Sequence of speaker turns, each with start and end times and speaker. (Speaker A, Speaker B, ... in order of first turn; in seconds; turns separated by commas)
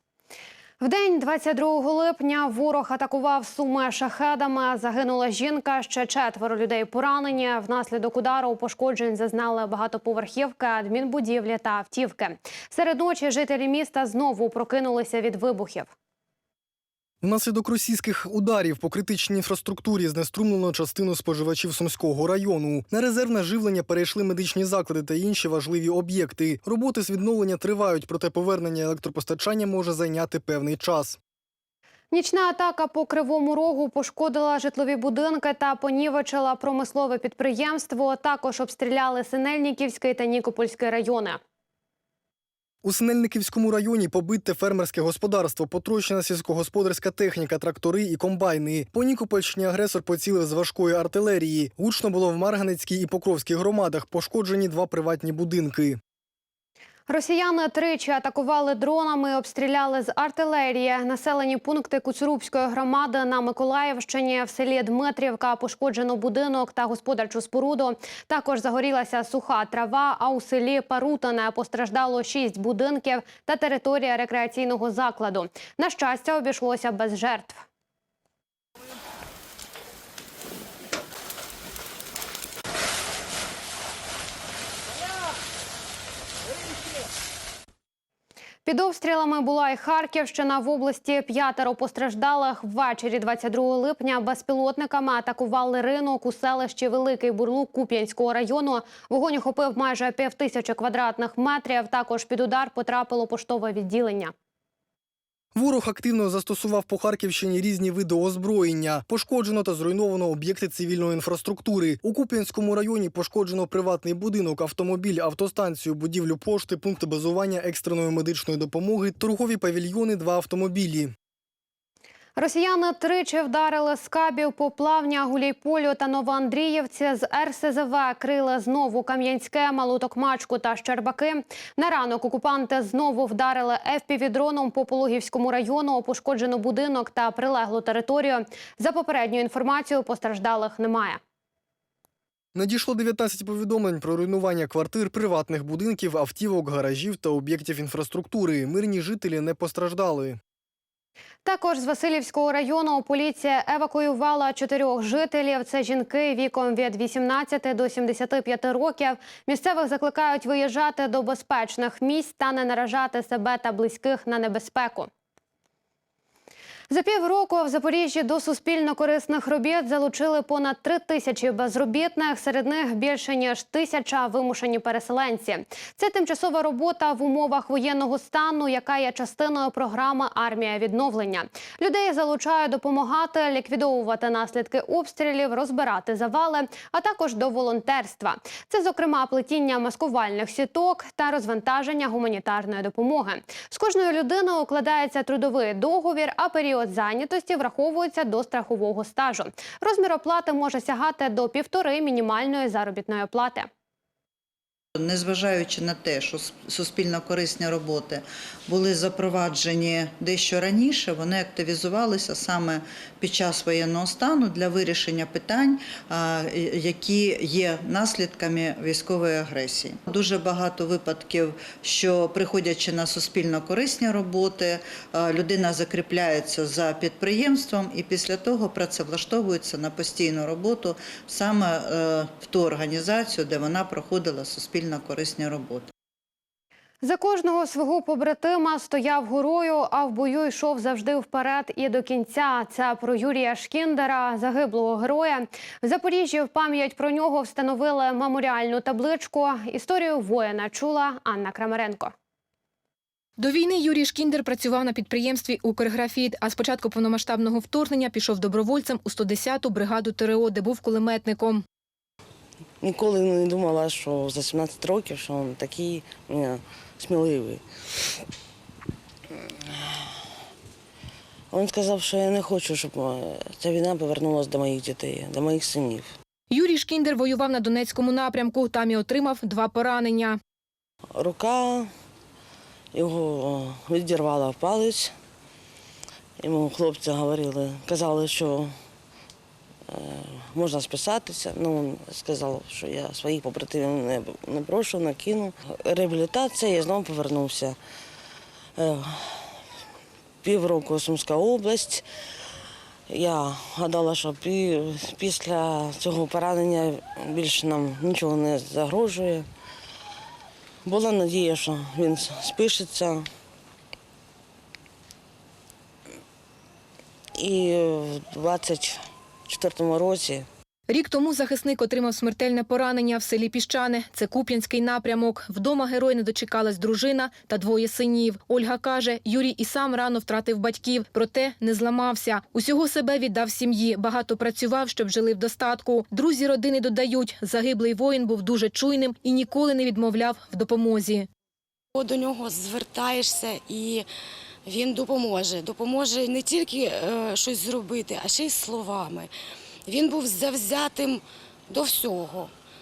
Speaker A: 0.8-15.9, Speaker B: 17.2-31.2, Speaker A: 32.1-41.4, Speaker B: 42.8-56.0, Speaker A: 57.1-77.6, Speaker A: 88.7-104.3, Speaker B: 105.5-121.1, Speaker A: 122.4-141.2, Speaker B: 142.6-150.4, Speaker A: 151.4-165.1, Speaker A: 166.9-203.7, Speaker C: 205.0-235.9, Speaker A: 237.0-252.1, Speaker D: 253.4-261.6, Speaker E: 262.8-267.6, Speaker E: 271.5-276.1, Speaker D: 276.5-280.4, Speaker E: 281.1-281.9, Speaker E: 282.9-285.1, Speaker E: 286.4-288.7, Speaker E: 289.9-297.8, Speaker E: 298.8-299.5, Speaker E: 300.4-302.1, Speaker E: 303.1-309.5, Speaker E: 310.9-313.3, Speaker E: 317.4-320.5, Speaker D: 320.9-341.3, Speaker F: 341.9-344.1, Speaker F: 344.6-349.3, Speaker F: 349.9-352.5